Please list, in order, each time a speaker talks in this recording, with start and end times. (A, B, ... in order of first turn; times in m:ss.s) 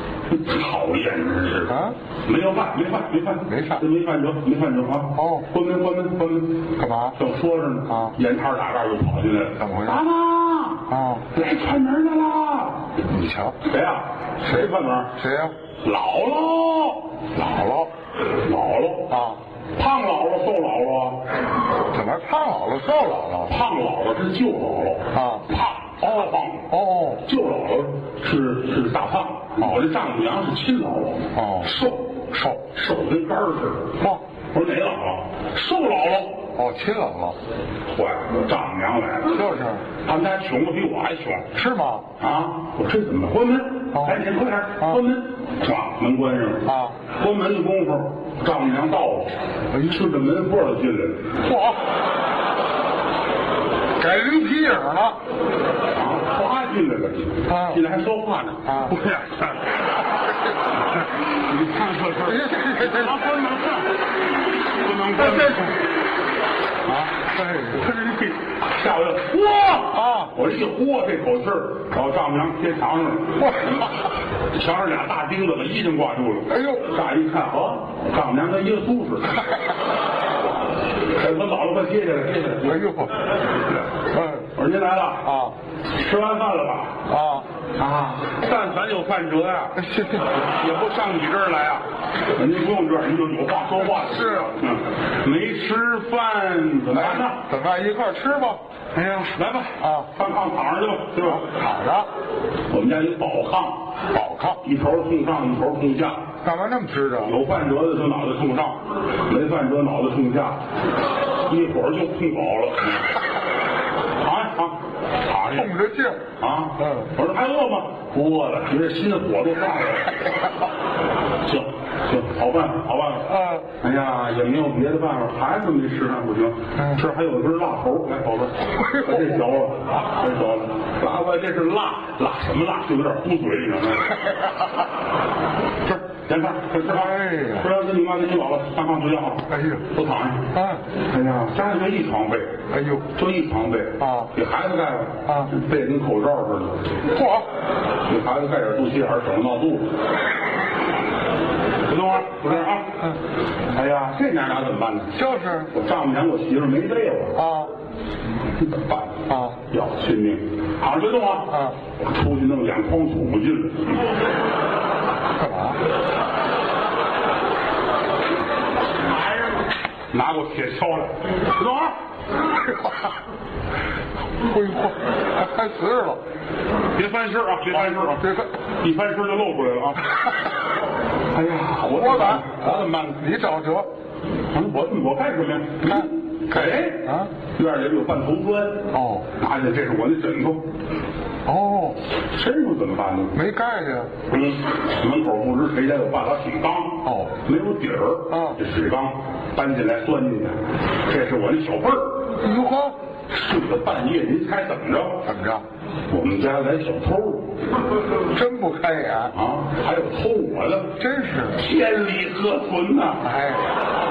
0:00.3-0:12.8 A
0:01.7-0:02.0 B
0:03.5-0:03.8 B
0:05.2-0:05.5 B
0:06.8-0:07.2 B
0:09.6-0:10.0 B
0:10.9-0:11.2 B
0:13.1-0:13.6 B
0:13.6-0:15.1 A
0:15.2-0:15.5 B
0:15.8-0:17.1 A
0:17.4-0:17.9 B
0:18.4-0:19.2 A
0:19.1-0:19.4 B
0:19.8-0:21.2 A
0:21.9-0:23.5 B
0:23.4-0:32.1 A
0:25.1-0:25.5 B
0:26.0-0:27.2 B
0:31.4-0:31.7 B
0:32.3-0:32.6 B
0:32.7-0:34.0 A
0:34.5-0:36.5 A
0:36.6-0:37.4 B
0:37.9-0:41.5 A
0:39.3-0:39.8 B
0:41.5-0:42.1 B
0:42.2-0:51.3 A
0:43.9-0:44.2 B
0:46.6-0:47.0 B
0:49.7-0:50.0 B
0:51.4-0:51.8 B
0:54.0-0:55.2 B
0:55.9-0:59.9 A
0:57.5-0:57.8 B
0:58.6-0:58.9 B
1:01.4-1:03.9 A
1:02.3-1:03.2 B
1:04.7-1:05.7 A
1:05.2-1:05.8 B
1:06.9-1:13.5 A
1:07.1-1:07.8 B
1:09.9-1:10.3 B
1:13.4-1:13.8 B
1:14.5-1:19.4 A
1:16.5-1:16.9 B
1:21.2-1:23.1 A
1:22.6-1:23.2 B
1:24.1-1:24.5 B
1:24.5-1:25.3 A
1:25.2-1:25.5 B
1:25.9-1:27.0 A
1:27.1-1:27.5 B
1:27.8-1:29.8 A
1:29.8-1:30.5 B
1:30.4-1:37.4 A
1:33.8-1:34.5 B
1:36.9-1:39.3 B
1:39.0-1:41.5 A
1:39.8-1:40.1 B
1:41.2-1:42.1 B
1:42.7-1:46.2 A
1:44.1-1:44.6 B
1:46.4-1:47.4 B
1:47.2-1:50.6 A
1:51.5-1:53.1 A
1:54.2-1:55.8 A
1:55.5-1:56.2 B
1:56.3-2:00.2 A
1:56.8-1:57.1 B
2:01.4-2:14.2 A
2:03.3-2:03.6 B
2:08.8-2:09.4 B
2:15.9-2:20.5 A
2:16.9-2:17.7 B
2:19.5-2:19.8 B
2:20.5-2:20.8 B
2:21.1-2:22.5 A
2:22.7-2:23.1 B
2:23.1-2:26.9 A
2:24.0-2:24.3 B
2:27.1-2:27.5 B
2:28.1-2:29.9 A
2:31.9-2:33.0 A
2:33.7-2:37.4 A
2:35.1-2:35.7 B
2:37.4-2:37.7 B
2:38.6-2:44.1 A
2:39.3-2:39.6 B
2:41.5-2:41.8 B
2:45.4-2:45.8 B
2:50.1-2:52.0 A
2:54.5-2:56.2 B
2:56.9-3:00.0 A
2:58.1-2:58.5 B
3:01.3-3:03.2 A
3:01.9-3:03.9 B
3:04.5-3:10.6 A
3:05.9-3:07.3 B
3:08.9-3:09.2 B
3:11.5-3:12.0 B
3:12.3-3:13.4 A
3:13.3-3:14.1 B
3:14.3-3:22.2 A
3:17.0-3:17.4 B
3:18.3-3:18.6 B
3:22.4-3:23.0 B
3:23.3-3:25.2 A
3:25.2-3:25.6 B
3:26.1-3:27.5 A
3:28.3-3:29.3 B
3:29.3-3:31.0 A
3:31.0-3:31.6 B
3:31.6-3:33.2 A
3:33.2-3:33.7 B